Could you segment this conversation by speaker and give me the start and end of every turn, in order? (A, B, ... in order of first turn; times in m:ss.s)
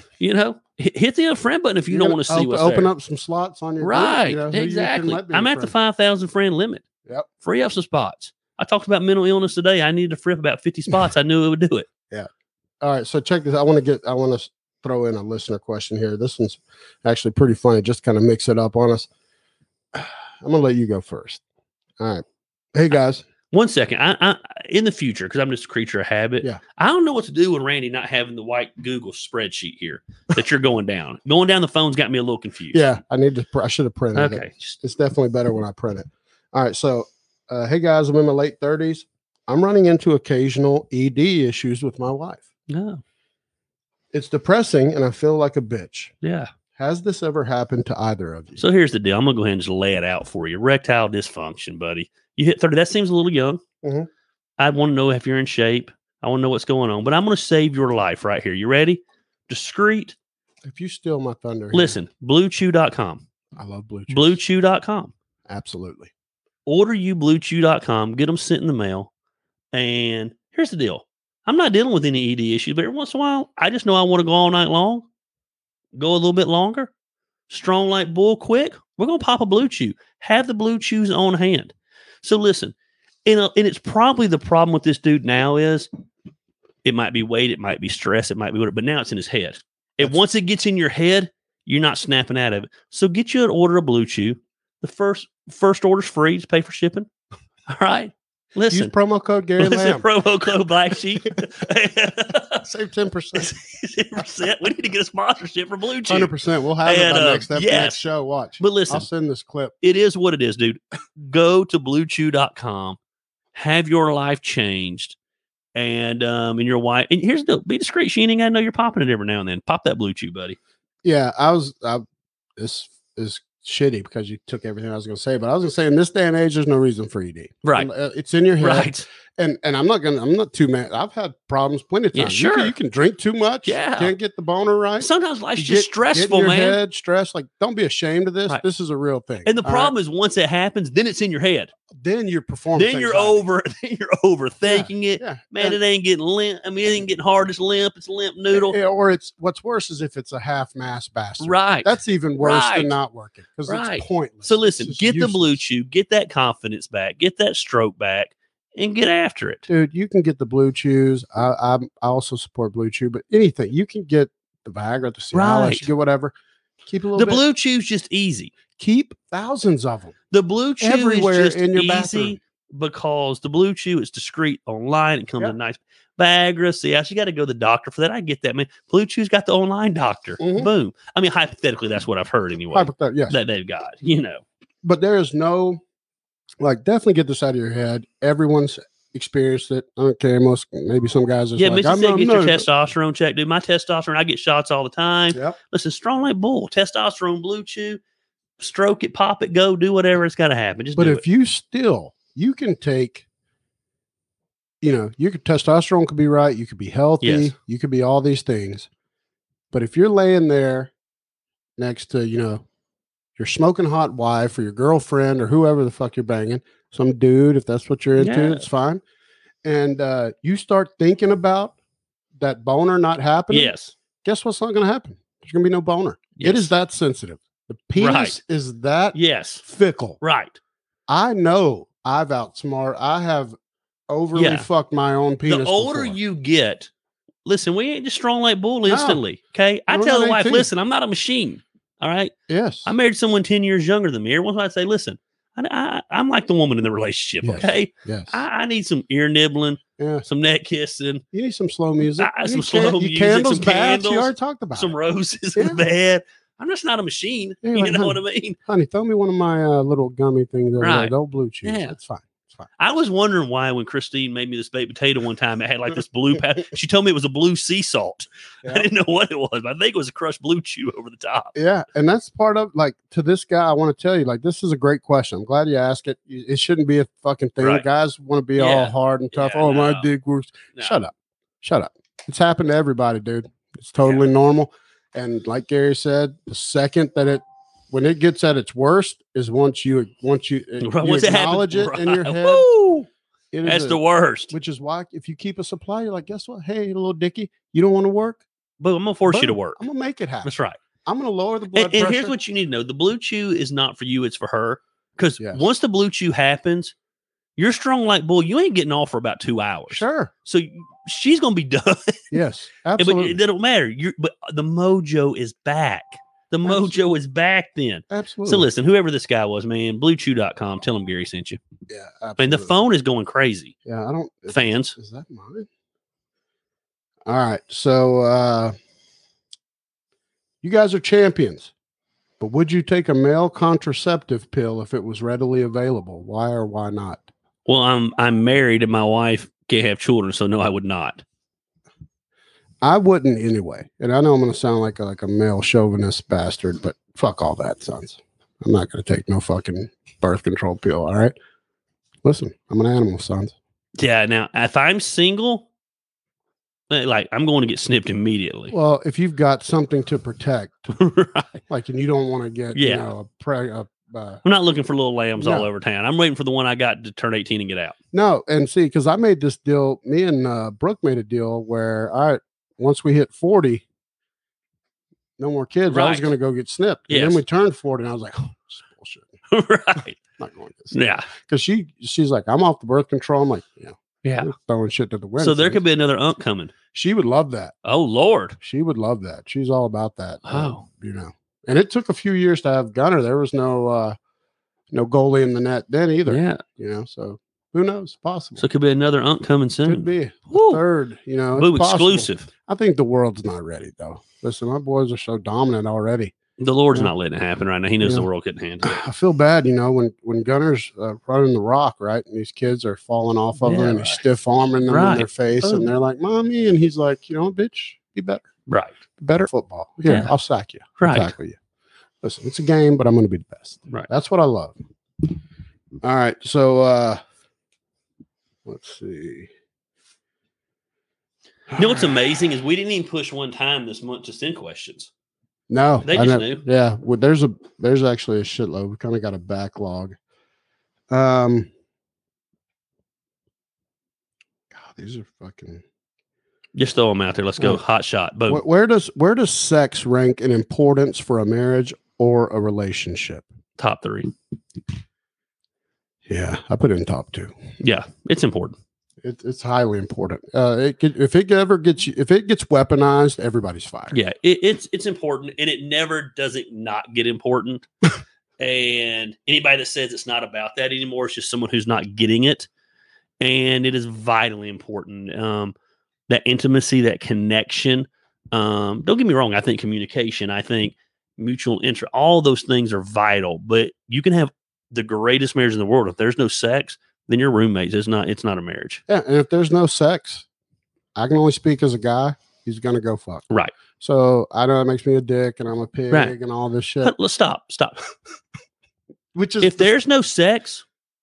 0:00.2-0:02.9 A
0:01.9-0:05.7 B
0:03.8-0:06.8 A
0:07.4-0:11.9 A
0:12.8-0:19.1 B
0:19.9-0:21.4 B
0:22.0-0:23.2 B
0:23.5-0:32.8 A
0:32.7-0:42.4 B
0:34.1-0:34.8 A
0:42.7-0:43.0 A
0:44.1-0:46.1 B
0:46.2-0:46.5 A
0:46.8-0:48.6 B
0:48.6-0:53.6 A
0:53.8-0:54.1 B
0:54.6-1:00.2 A
1:00.6-1:02.0 B
1:01.7-1:03.2 A
1:03.6-1:04.4 B
1:04.1-1:05.1 A
1:05.5-1:06.1 B
1:06.7-1:09.1 A
1:09.7-1:15.1 A
1:15.9-1:16.9 A
1:17.5-1:22.7 A
1:23.2-1:25.9 A
1:26.8-1:37.1 A
1:37.7-1:38.9 A
1:38.7-1:40.1 B
1:39.6-1:42.6 A
1:42.6-1:43.5 B
1:43.4-1:46.3 A
1:46.1-1:49.7 B
1:46.8-1:48.0 A
1:48.6-1:49.1 A
1:49.8-1:53.0 A
1:53.5-1:55.2 A
1:55.7-2:00.6 A
2:01.0-2:02.0 B
2:02.6-2:19.9 B
2:07.6-2:07.9 A
2:08.6-2:09.1 A
2:12.1-2:12.7 A
2:13.6-2:14.1 A
2:15.0-2:16.8 A
2:19.4-2:21.7 A
2:21.9-2:23.4 B
2:22.7-2:28.8 A
2:24.7-2:25.8 B
2:28.5-2:35.6 B
2:31.4-2:33.0 A
2:33.7-2:39.7 A
2:39.7-2:46.4 B
2:45.3-2:45.9 A
2:46.9-2:47.4 B
2:47.1-2:48.5 A
2:48.8-2:50.1 B
2:50.3-3:04.4 A
2:50.8-2:52.4 B
3:00.4-3:00.7 B
3:02.7-3:03.4 B
3:04.8-3:05.8 B
3:06.6-3:12.7 B
3:11.6-3:18.0 A
3:18.6-3:21.2 A
3:21.0-3:23.2 B
3:24.8-3:28.9 B
3:27.2-3:27.5 A
3:29.7-3:30.9 B
3:31.8-3:32.6 B
3:33.4-3:39.0 B
3:38.2-3:38.7 A
3:39.6-3:41.7 B
3:42.4-3:50.2 B
3:43.5-3:44.0 A
3:46.4-3:46.7 A
3:48.0-3:48.4 A
3:49.1-3:49.6 A
3:50.2-3:50.6 A
3:51.1-3:53.6 B
3:54.1-3:56.2 B
3:54.4-3:54.7 A
3:55.5-3:56.9 A
3:57.4-4:02.3 A
3:58.9-3:59.2 B
3:59.9-4:00.7 B
4:02.5-4:02.9 B
4:02.8-4:11.2 A
4:07.4-4:08.4 B
4:10.0-4:10.3 B
4:11.3-4:14.9 B
4:12.2-4:18.6 A
4:15.6-4:15.8 B
4:17.6-4:22.7 B
4:20.8-4:22.0 A
4:22.8-4:31.6 A
4:31.6-4:52.7 B
4:37.6-4:37.8 A
4:38.6-4:40.1 A
4:50.8-4:53.1 A
4:53.5-4:58.4 B
4:53.6-4:54.5 A
4:58.8-4:59.8 A
4:59.3-5:00.5 B
5:00.4-5:00.8 A
5:01.0-5:02.3 B
5:01.7-5:07.0 A
5:07.6-5:12.3 A
5:09.9-5:10.3 B
5:12.3-5:13.4 B
5:13.0-5:21.6 A
5:16.6-5:17.0 B
5:18.1-5:18.7 B
5:21.9-5:22.7 B
5:22.4-5:23.7 A
5:23.9-5:25.7 B
5:24.5-5:25.0 A
5:27.3-5:28.7 B
5:30.6-5:31.7 B
5:32.4-5:37.3 B
5:37.7-5:41.2 A
5:42.8-5:51.4 B
5:52.2-5:53.5 B
5:54.0-5:55.7 A
5:56.9-5:58.7 A
5:58.7-6:00.9 B
6:00.9-6:01.6 A
6:01.7-6:04.4 B
6:02.7-6:03.1 A
6:04.4-6:08.0 A
6:05.4-6:05.7 B
6:08.1-6:13.8 B
6:15.4-6:19.3 B
6:15.9-6:16.3 A
6:17.1-6:17.4 A
6:19.5-6:20.2 A
6:20.4-6:25.8 B
6:20.9-6:21.3 A
6:24.2-6:24.5 A
6:25.4-6:26.7 A
6:26.9-6:27.7 B
6:27.8-6:28.6 A
6:28.6-6:34.2 B
6:30.4-6:30.8 A
6:34.9-6:38.6 B
6:36.3-6:36.6 A
6:38.6-6:40.8 A
6:39.8-6:46.3 B
6:41.6-6:42.5 A
6:46.6-6:49.0 A
6:48.0-6:48.3 B
6:48.8-6:58.4 B
6:53.6-6:54.2 A
6:54.9-6:55.9 A
6:58.7-6:58.9 A
6:59.2-7:01.6 B
7:00.1-7:00.3 A
7:01.0-7:01.3 A
7:02.2-7:05.3 B
7:06.0-7:07.2 B
7:08.6-7:09.5 B
7:11.7-7:12.1 B
7:11.8-7:15.1 A
7:15.7-7:20.2 B
7:16.0-7:16.6 A
7:21.1-7:21.7 B
7:24.7-7:25.8 B
7:26.7-7:28.6 A
7:28.5-7:33.4 B
7:33.8-7:34.3 A
7:36.3-7:37.6 B
7:37.8-7:38.8 A
7:39.2-7:44.2 B
7:44.1-7:47.9 A
7:48.6-7:52.7 A
7:53.4-7:55.7 A
7:56.3-8:09.0 A
8:09.1-8:10.4 B
8:11.1-8:13.5 B
8:14.0-8:17.1 B
8:17.0-8:18.0 A
8:19.3-8:19.9 B
8:19.6-8:20.8 A